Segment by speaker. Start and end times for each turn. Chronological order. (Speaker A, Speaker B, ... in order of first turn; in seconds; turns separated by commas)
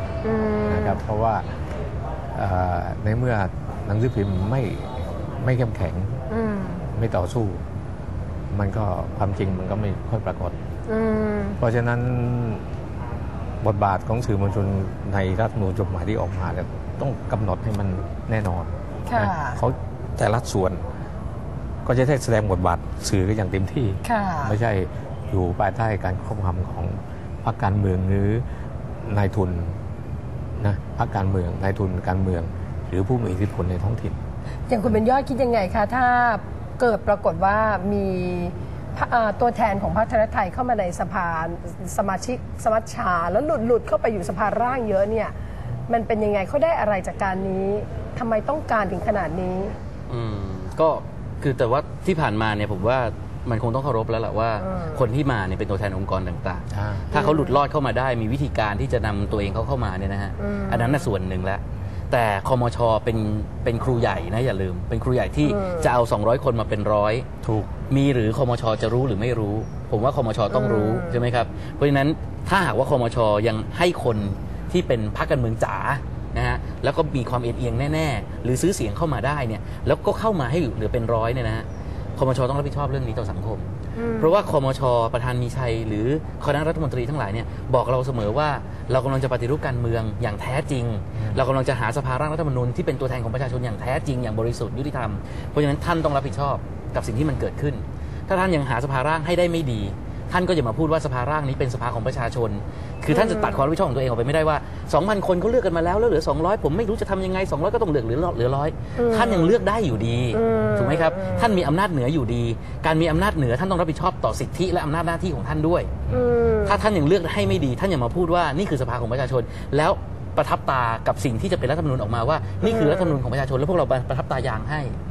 Speaker A: 0.2-1.0, Speaker B: 0.7-1.5, Speaker B: 2.3-6.2, Speaker A: 6.3-6.8, Speaker B: 6.9-7.6, Speaker B: 8.5-10.5, Speaker A: 10.9-11.6, Speaker B: 11.6-12.6, Speaker B: 13.6-20.8, Speaker A: 19.1-19.6, Speaker B: 21.8-28.4, Speaker A: 24.0-24.6, Speaker B: 29.0-29.8, Speaker B: 30.6-34.2, Speaker A: 34.7-45.3, Speaker A: 45.9-49.7, Speaker C: 50.1-67.3, Speaker B: 56.7-57.1, Speaker A: 57.1-57.6, Speaker A: 60.4-61.1, Speaker A: 65.5-65.9, Speaker B: 67.4-67.7, Speaker C: 67.8-116.1, Speaker A: 70.5-71.2, Speaker A: 84.0-84.4, Speaker A: 103.1-103.7, Speaker A: 109.0-109.6, Speaker A: 110.3-111.6, Speaker A: 116.1-116.8, Speaker C: 116.6-124.9, Speaker A: 122.6-123.2